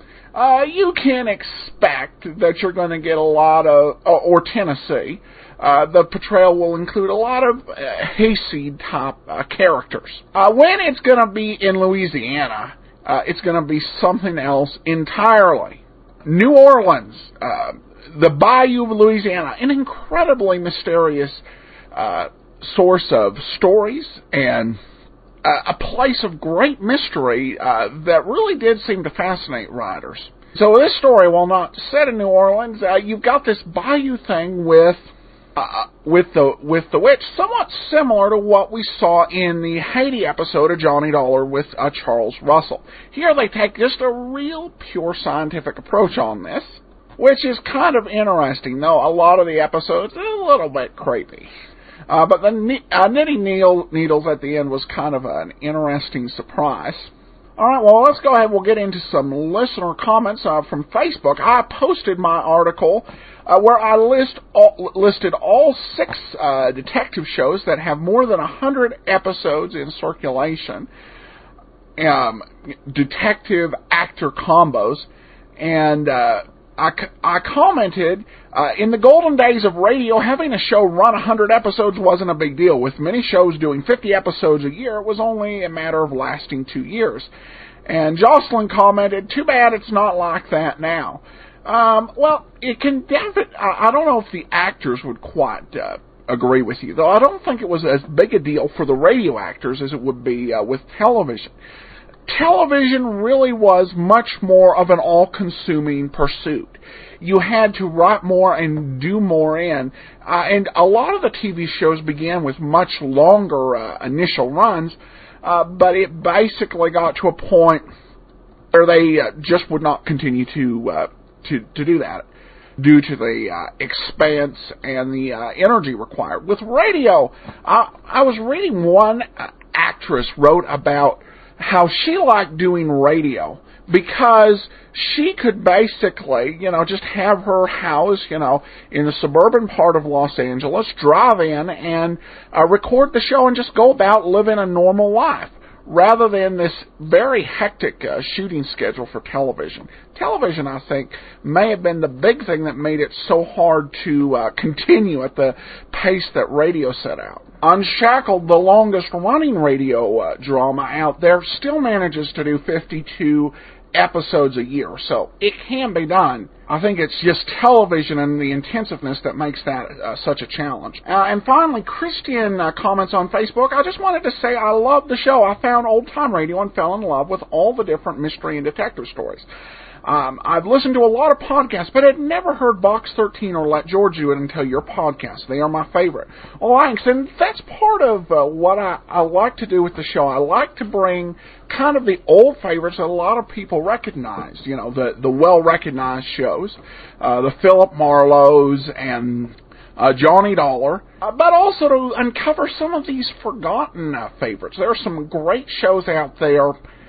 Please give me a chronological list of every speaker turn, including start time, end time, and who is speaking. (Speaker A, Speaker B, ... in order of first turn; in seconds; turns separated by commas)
Speaker A: 0.3-24.8, Speaker A: 25.4-51.5, Speaker A: 52.1-70.9, Speaker A: 72.0-87.3, Speaker A: 87.8-101.5, Speaker A: 102.3-117.9, Speaker A: 118.7-122.2, Speaker A: 122.8-179.5, Speaker A: 180.0-206.8